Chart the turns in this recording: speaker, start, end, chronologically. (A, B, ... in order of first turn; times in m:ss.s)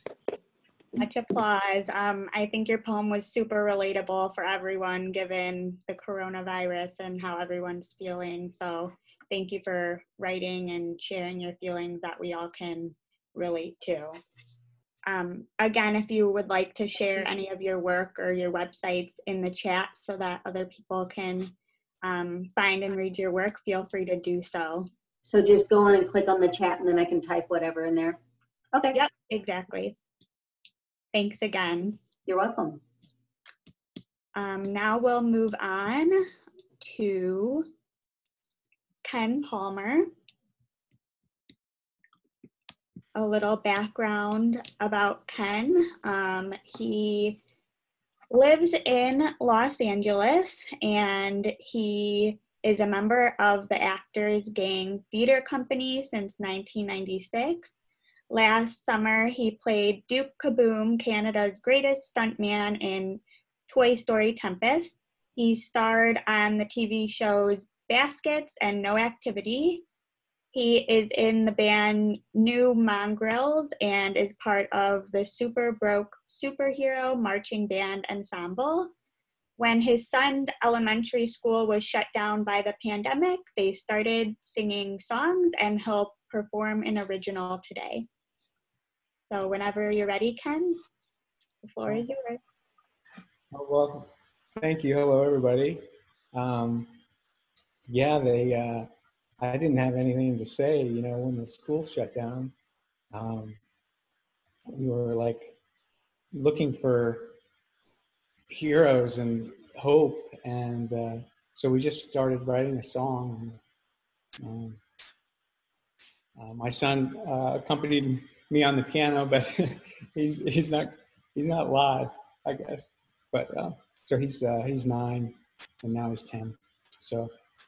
0:01.0-0:14.2 A
0:15.1-0:24.9 A
0:25.2-0:28.2 B
0:28.9-0:30.0 A
0:31.1-0:32.0 A
0:32.2-0:32.8 B
0:34.4-0:36.2 A
0:36.8-0:37.7 A
0:39.0-0:40.1 A
0:43.2-0:47.4 A
0:48.3-0:57.7 A
0:58.3-1:09.8 A
1:10.5-1:18.9 A
1:19.6-1:28.1 A
1:29.3-1:30.8 A
1:31.6-1:32.4 A
1:33.5-1:37.0 C
1:37.9-1:38.9 C
1:39.4-1:42.5 C
1:43.1-1:43.6 C
1:44.7-1:45.6 C
1:46.3-1:47.4 C
1:48.5-1:53.6 C
1:54.4-1:54.8 C
1:56.4-2:07.3 C